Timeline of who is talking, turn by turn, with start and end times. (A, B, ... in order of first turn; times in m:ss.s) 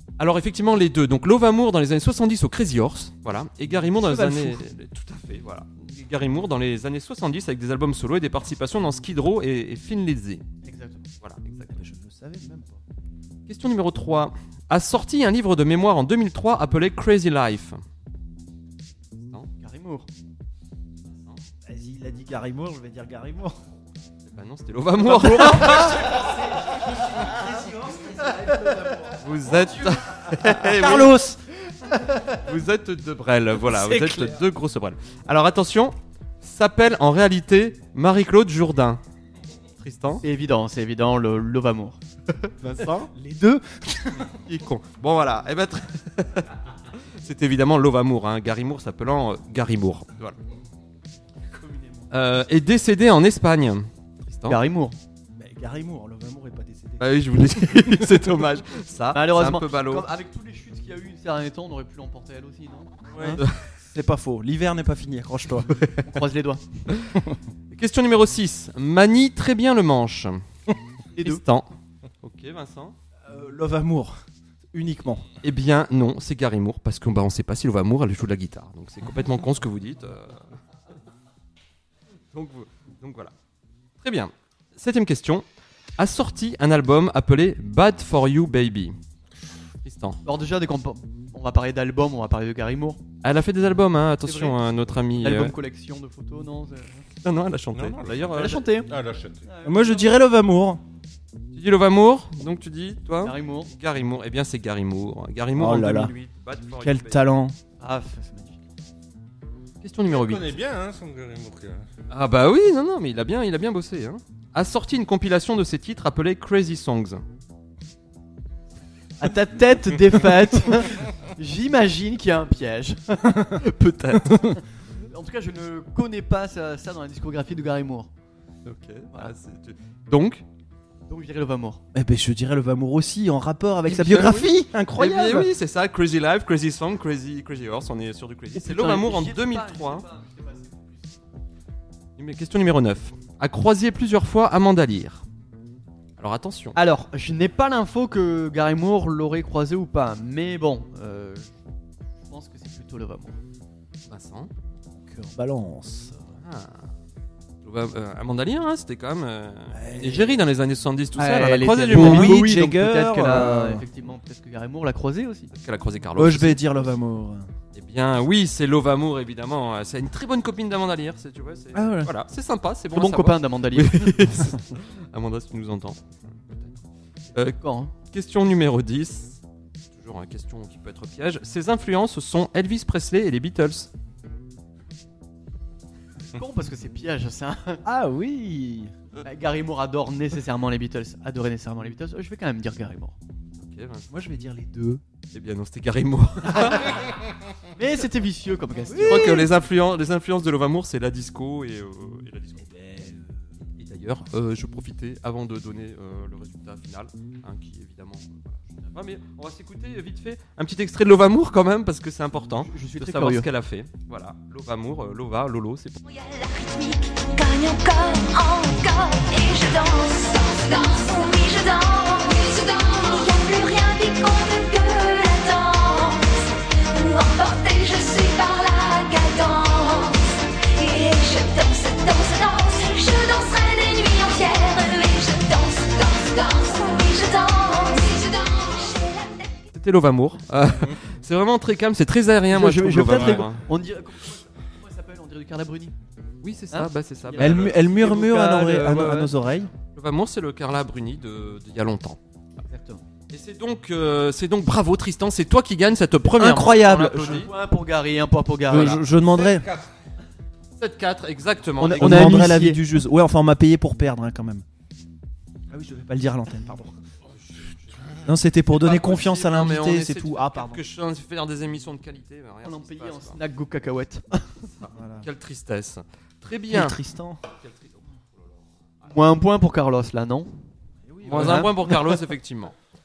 0:00.2-0:10.4 A
0:03.9-0:04.6 B
0:10.6-0:11.1 C
0:11.7-0:12.8 B
0:13.5-0:17.8 A
0:19.2-0:19.5 A
0:19.6-0:20.1 C
0:21.7-0:23.6 B
0:24.3-0:26.3 A
0:25.0-0:32.4 B
0:29.2-0:31.1 A
0:32.4-0:39.0 A
0:33.6-0:34.4 B
0:39.8-0:40.2 A
0:40.2-0:42.0 C
0:42.6-0:44.3 B
0:44.4-0:50.4 A
0:52.1-0:54.6 A
0:54.5-0:55.0 C
0:55.4-0:58.1 B
0:57.0-1:00.1 A
0:59.1-1:03.4 C
1:03.1-1:05.7 B
1:05.7-1:06.0 A
1:06.0-1:06.6 C
1:06.9-1:07.2 A
1:07.7-1:10.4 A
1:11.1-1:11.4 C
1:11.2-1:13.0 A
1:13.3-1:14.2 B
1:14.7-1:15.2 B
1:15.4-1:20.4 A
1:22.3-1:23.3 A
1:24.0-1:25.4 A
1:26.0-1:29.0 A
1:29.8-1:30.2 A
1:30.2-1:33.0 C
1:33.2-1:35.5 A
1:34.2-1:34.6 C
1:35.2-1:37.0 C
1:37.2-1:38.7 A
1:37.7-1:38.4 D
1:38.3-1:38.9 C
1:38.9-1:39.4 D
1:39.5-1:40.2 C
1:39.6-1:40.8 B
1:41.5-1:47.2 A
1:43.2-1:43.7 C
1:45.6-1:46.1 B
1:46.8-1:47.6 B
1:47.8-1:48.6 C
1:49.8-1:50.6 A
1:50.1-1:51.8 D
1:52.1-1:57.2 A
1:59.2-2:04.5 C
2:05.1-2:08.1 C
2:08.6-2:10.4 A
2:11.1-2:11.8 C
2:11.9-2:15.5 B
2:13.9-2:20.0 A
2:18.6-2:21.1 C
2:22.2-2:25.2 A
2:26.2-2:26.8 A
2:26.8-2:31.5 C
2:32.2-2:33.4 C
2:34.1-2:34.5 A
2:35.0-2:36.3 B
2:36.4-2:36.9 A
2:37.6-2:42.4 A
2:39.7-2:40.4 B
2:41.2-2:45.5 C
2:41.9-2:43.8 B
2:45.5-2:46.9 A
2:46.2-2:47.5 B
2:47.7-2:56.8 A
2:51.7-2:52.1 B
2:52.9-2:54.5 C
2:57.4-2:59.4 A
2:57.6-2:57.9 C
2:59.9-3:03.9 A
3:06.3-3:07.8 C
3:07.8-3:08.9 B
3:09.2-3:13.2 C
3:13.6-3:14.1 A
3:14.1-3:15.0 B
3:15.3-3:17.0 A
3:17.8-3:19.4 C
3:18.9-3:19.5 B
3:19.0-3:22.7 A
3:22.6-3:23.6 B
3:23.8-3:36.0 A
3:32.6-3:33.5 C
3:36.0-3:59.6 E
3:59.7-4:03.6 A
4:02.5-4:06.0 C
4:06.4-4:07.8 A
4:06.7-4:09.4 C
4:07.4-4:09.7 B
4:09.9-4:12.2 A
4:12.7-4:13.0 C
4:13.3-4:17.5 A
4:16.4-4:17.4 B
4:16.9-4:19.0 C
4:18.7-4:19.7 B
4:19.1-4:19.9 D
4:20.8-4:22.4 A
4:21.8-4:22.8 C
4:21.9-4:24.6 B
4:25.7-4:27.0 B
4:27.4-4:33.4 A
4:28.3-4:30.8 B
4:32.6-4:34.4 C
4:34.8-4:37.0 A
4:34.9-4:35.3 B
4:36.7-4:37.4 B
4:37.5-4:39.1 A
4:39.0-4:40.5 C
4:41.0-4:41.7 B
4:41.2-4:42.8 A
4:41.3-4:42.0 C